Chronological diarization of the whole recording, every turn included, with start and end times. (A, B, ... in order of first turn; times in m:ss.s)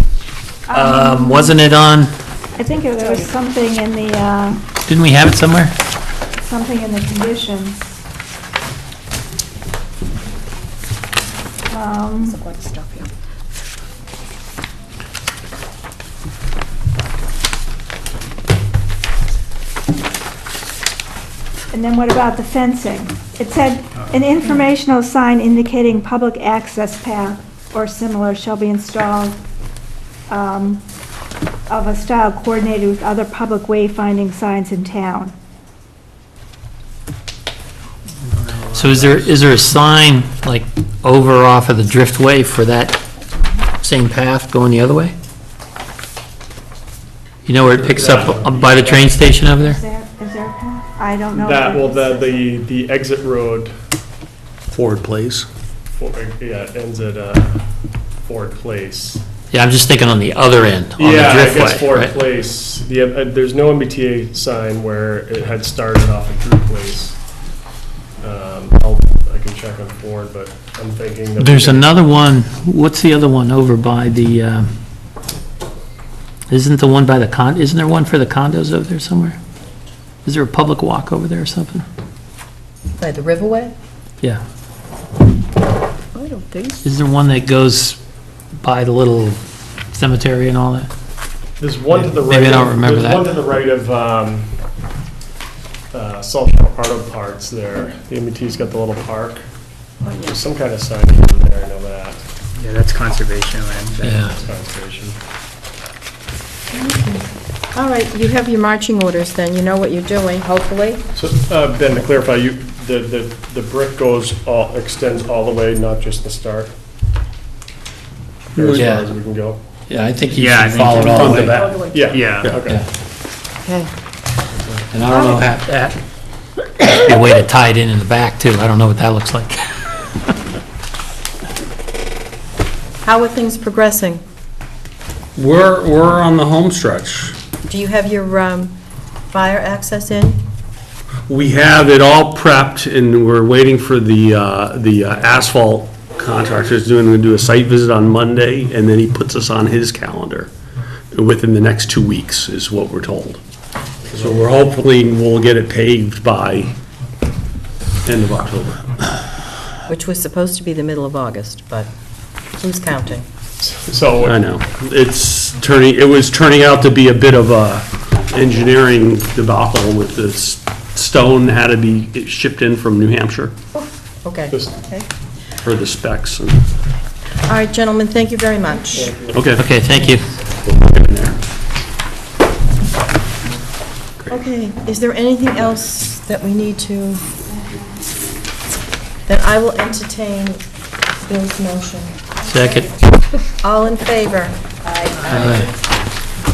0:00.7-0:01.6 A
0:00.7-0:02.1 B
0:02.6-0:04.6 A
0:04.8-0:05.7 B
0:06.4-0:08.0 A
0:11.7-0:12.4 A
0:12.3-0:13.1 C
0:21.7-0:29.4 A
0:30.3-0:30.8 A
0:31.7-0:35.3 A
0:38.3-0:38.6 D
0:38.7-0:43.0 B
0:43.8-0:45.1 B
0:47.4-0:49.8 B
0:47.7-0:49.4 E
0:49.4-0:52.5 A
0:51.3-0:53.7 E
0:54.7-0:55.5 F
0:56.0-0:57.6 E
0:58.3-0:59.2 E
0:59.5-1:02.2 B
1:01.0-1:07.2 E
1:08.2-1:12.0 E
1:11.4-1:14.7 B
1:16.5-1:19.4 B
1:20.2-1:21.8 B
1:23.0-1:23.8 C
1:26.2-1:26.8 C
1:26.8-1:28.0 B
1:28.6-1:29.4 B
1:29.9-1:30.9 B
1:31.6-1:34.5 E
1:32.1-1:33.2 B
1:35.9-1:39.4 E
1:40.0-1:40.4 C
1:40.2-1:42.2 E
1:42.6-1:44.3 D
1:44.0-1:44.3 B
1:44.3-1:45.2 E
1:46.7-1:51.0 C
1:51.2-1:56.7 E
1:58.5-1:59.6 E
1:58.6-1:58.9 F
1:58.7-1:59.1 B
1:59.9-2:01.6 B
2:00.3-2:02.5 D
2:00.8-2:02.6 F
2:01.8-2:02.8 E
2:03.6-2:03.9 C
2:04.5-2:04.9 E
2:04.9-2:06.0 B
2:05.1-2:05.4 C
2:06.8-2:10.1 B
2:13.0-2:14.2 C
2:15.4-2:17.4 F
2:17.7-2:18.8 C
2:19.3-2:20.4 C
2:21.3-2:30.5 F
2:31.1-2:33.4 F
2:34.0-2:36.7 F
2:38.0-2:39.2 F
2:39.9-2:41.9 C
2:42.6-2:43.3 C
2:43.6-2:44.4 E
2:44.2-2:53.5 F
2:53.8-2:55.1 C
2:54.5-2:54.8 E
2:55.6-2:56.6 F
2:57.4-2:59.1 C
2:59.0-2:59.6 E
2:59.3-2:59.7 F
2:59.6-3:00.3 B
3:00.6-3:01.4 F
3:04.3-3:07.3 C
3:09.3-3:10.6 C
3:11.2-3:12.2 C
3:12.5-3:12.9 B
3:13.6-3:15.7 C
3:15.3-3:15.7 B